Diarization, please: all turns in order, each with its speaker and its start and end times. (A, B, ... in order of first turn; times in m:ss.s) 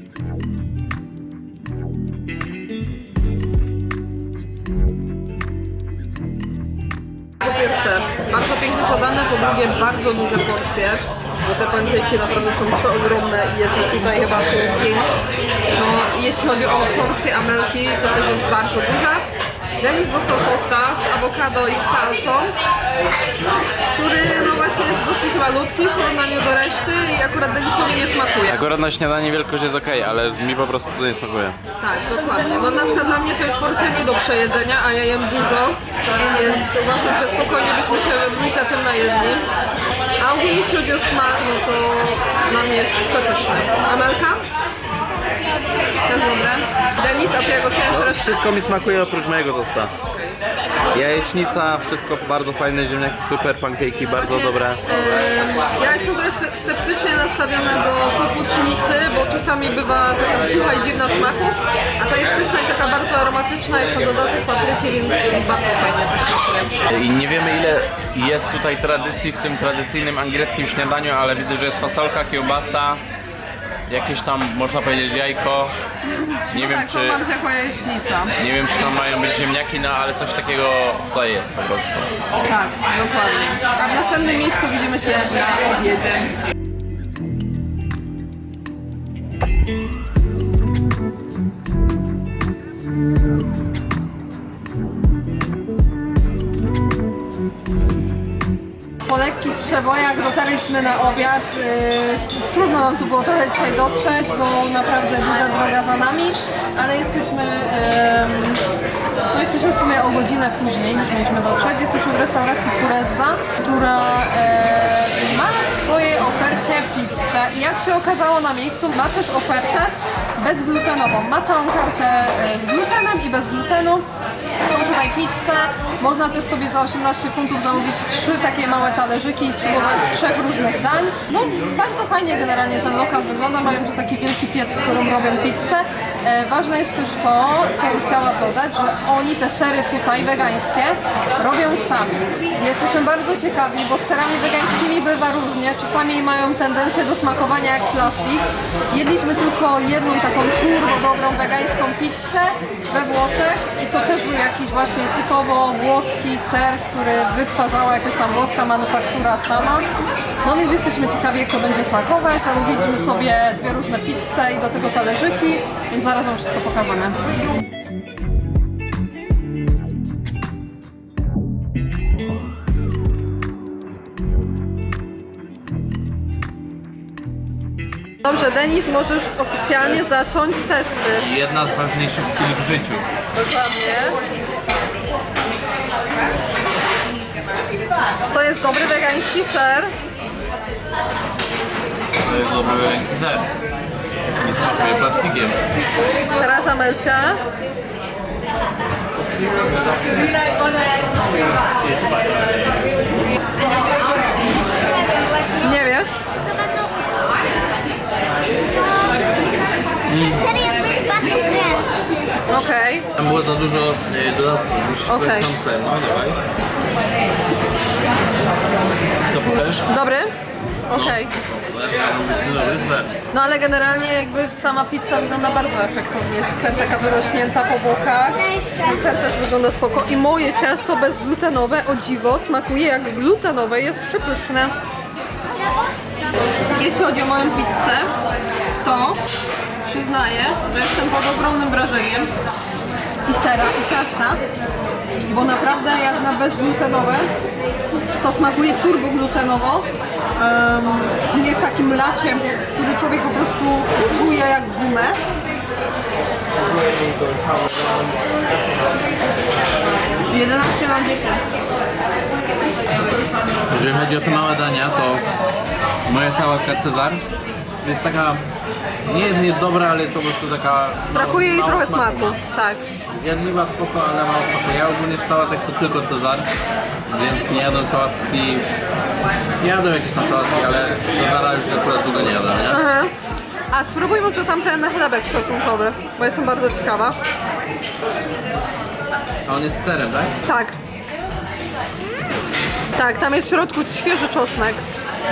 0:07.4-0:15.2 A
0:15.7-0:19.3 A
0:19.8-0:22.5 A
0:23.9-0:28.6 A
0:28.5-0:31.6 B
0:31.8-0:35.8 A
0:36.3-0:39.5 A
0:40.2-0:44.4 A
0:46.0-0:48.4 A
0:47.9-0:49.9 B
0:50.9-0:54.8 B
0:54.2-1:06.7 A
1:06.9-1:13.0 B
1:13.9-1:15.8 B
1:16.0-1:18.3 A
1:16.5-1:17.2 B
1:18.4-1:22.1 B
1:22.4-1:26.3 A
1:39.0-1:48.6 A
1:49.3-2:04.1 A
2:04.6-2:39.8 A
2:40.4-2:47.2 A
2:58.2-3:01.3 A
3:01.2-3:03.0 B
3:03.3-3:04.2 A
3:08.2-3:09.9 A
3:12.2-3:13.5 B
3:14.4-3:15.6 B
3:16.4-3:17.4 A
3:24.9-3:25.7 C
3:25.6-3:26.1 A
3:26.4-3:27.2 C
3:28.7-3:29.6 C
3:30.1-3:30.4 B
3:30.3-3:32.3 C
3:32.5-3:33.1 A
3:33.2-3:36.4 B
3:35.1-3:35.5 A
3:39.3-3:39.9 B
3:39.9-3:40.3 A
3:40.9-3:41.3 A
3:40.9-3:43.1 B
3:43.3-3:54.7 A
3:48.4-3:49.0 C
3:56.7-3:58.1 A
3:58.8-3:59.2 A
3:59.8-4:02.3 A
4:03.2-4:04.4 A
4:05.3-4:07.3 A
4:08.2-4:15.2 A
4:20.3-4:21.4 A
4:22.9-4:24.2 A
4:23.7-4:25.3 B
4:26.1-4:27.2 B
4:27.8-4:28.4 B
4:29.0-4:32.4 B
4:31.1-4:32.8 A
4:33.1-4:36.5 B
4:37.1-4:38.7 B
4:39.6-4:42.8 B
4:42.7-4:43.1 A
4:43.7-4:47.2 A
4:49.5-4:50.3 B
4:50.4-4:50.8 A
4:52.9-4:54.8 A